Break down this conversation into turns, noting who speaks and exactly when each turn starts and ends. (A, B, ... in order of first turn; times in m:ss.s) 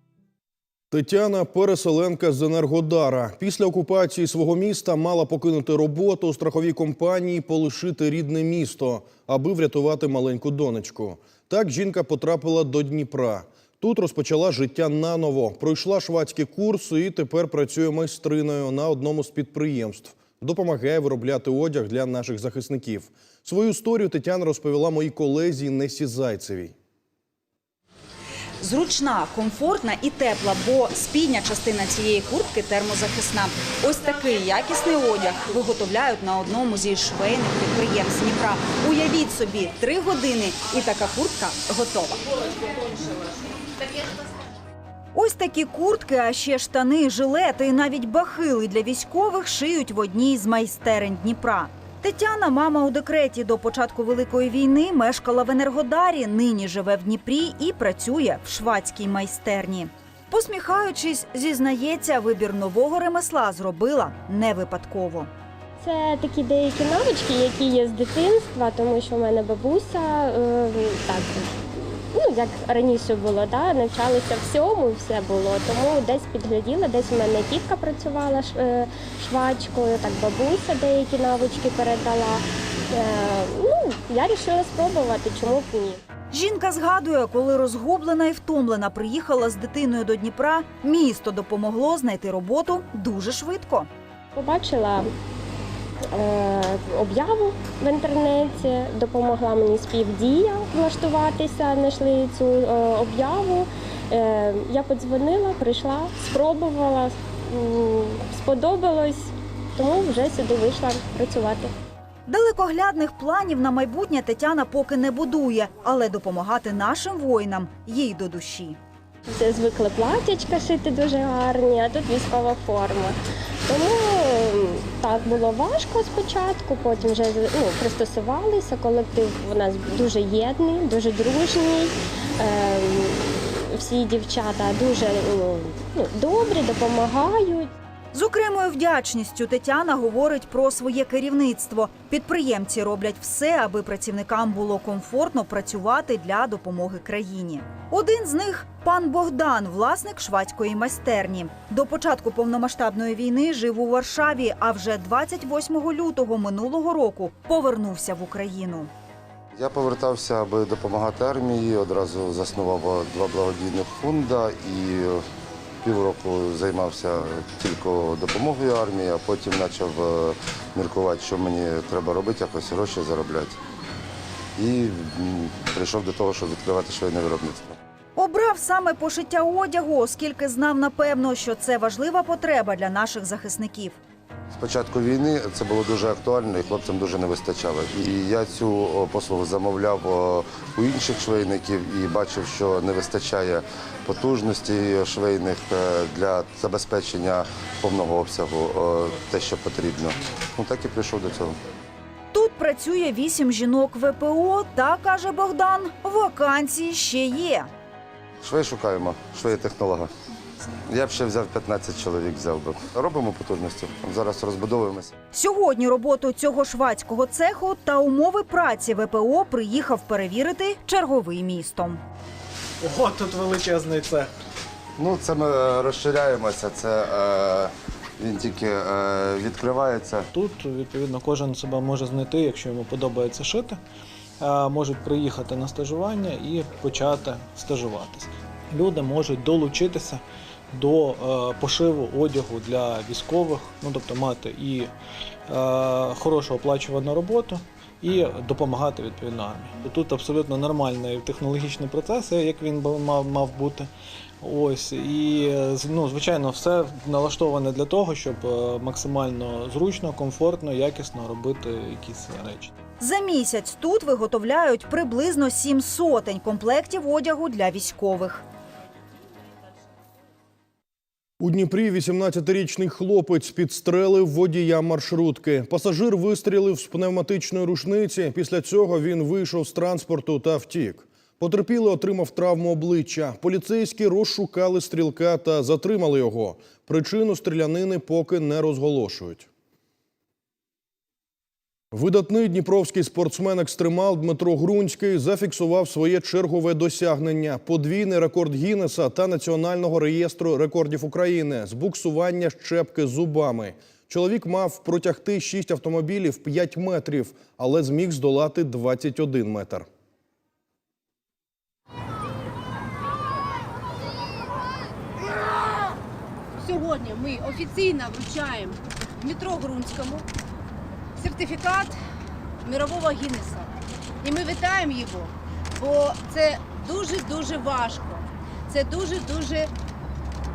0:00.9-0:26.7 A
0:28.6-0:42.2 B
0:45.1-1:05.3 B
1:05.8-1:26.0 C
1:26.3-1:33.9 B
1:34.4-1:35.1 C
1:36.1-1:51.7 C
1:52.3-1:58.8 B
1:59.3-2:17.7 C
2:18.1-2:38.9 B
2:39.5-2:45.2 D
2:45.8-2:53.6 D
2:54.6-2:57.8 D
2:58.2-3:04.0 B
3:04.5-3:21.6 D
3:22.3-3:27.7 B
3:28.4-3:30.1 D
3:30.9-3:35.1 D
3:35.3-3:42.0 B
3:42.8-3:44.3 E
3:45.0-3:50.3 D
3:50.3-3:53.8 E
3:54.4-4:04.9 E
4:05.5-4:13.9 E
4:14.4-4:22.7 E
4:23.0-4:28.4 B
4:31.4-4:49.5 A
4:51.9-5:09.9 A
5:15.2-5:15.9 F
5:16.6-5:20.2 F
5:21.2-5:22.0 F
5:22.6-5:23.7 F
5:24.2-5:29.7 F